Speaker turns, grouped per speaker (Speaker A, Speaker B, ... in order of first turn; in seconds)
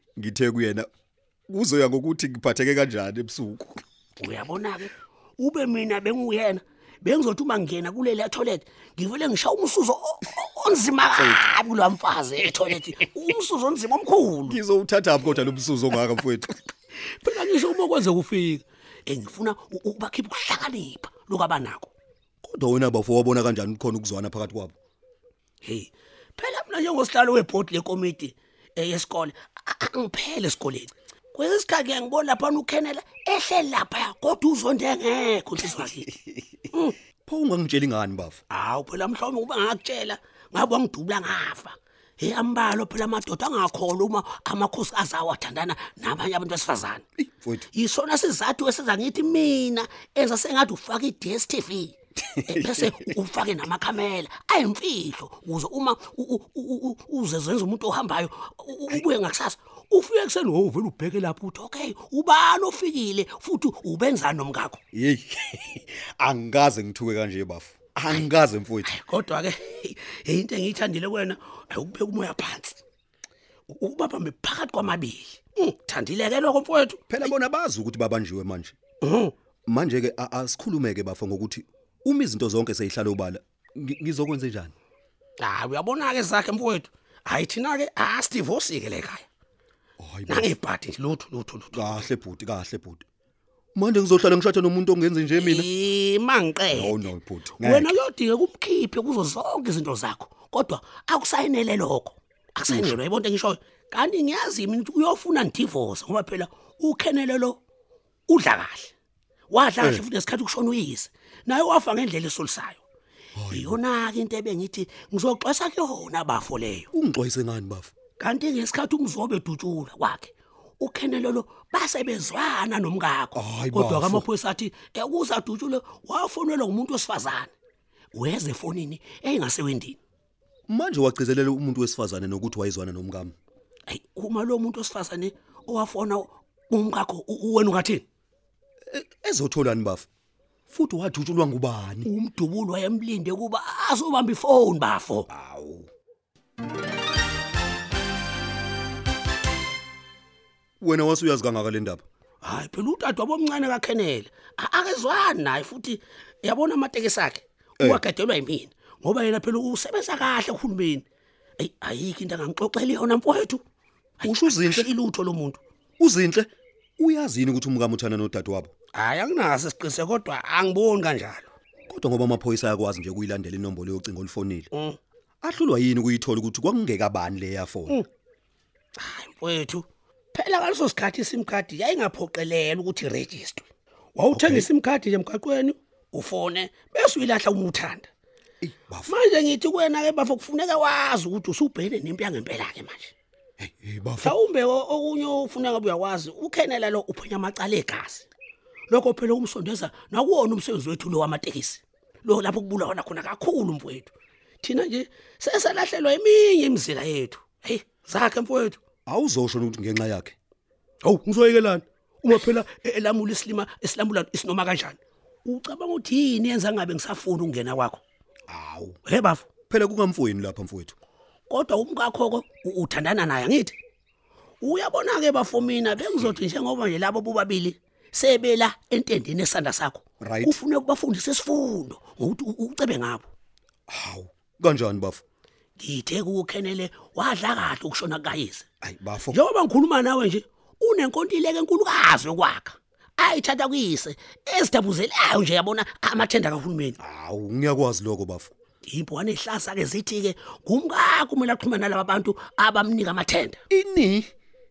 Speaker A: 0.2-0.9, 1.5-3.8, 14.5-16.6, 22.4-24.8, 37.3-38.4, 47.2-47.7, 64.9-68.9, 77.1-78.8, 79.7-84.7, 90.0-90.5, 91.7-93.0, 93.8-95.7, 96.7-98.0, 102.7-103.0, 113.3-113.8, 116.9-117.9, 123.3-124.3, 130.7-133.3, 138.9-140.1, 140.7-142.1, 145.3-145.9, 150.8-152.0, 164.2-164.9, 166.0-168.7, 171.9-174.7, 175.4-178.0, 184.3-184.7, 188.6-189.1, 193.6-194.4, 209.1-210.3, 218.5-219.0, 219.7-221.0, 230.2-230.6, 233.9-235.2, 238.8-239.4, 247.0-248.5, 253.7-254.3
Speaker B: 4.2-14.6, 17.1-21.9, 25.6-36.1, 38.5-47.0, 47.7-64.8, 68.9-72.8, 73.7-77.3, 79.0-79.3, 85.4-89.3, 90.3-91.9, 95.4-97.0, 97.6-107.6, 108.3-108.9, 109.5-112.8, 113.5-116.9, 118.2-127.5, 128.1-130.0, 133.9-138.0, 142.1-145.3, 152.4-161.1, 161.6-163.6, 164.2-165.6, 168.9-171.5, 174.7-175.0, 179.0-188.1, 189.1-193.1, 194.2-198.3, 198.9-208.8, 211.0-218.0, 219.1-219.5, 221.5-223.8, 224.6-233.3, 235.8-238.7, 239.3-247.0, 248.8-253.6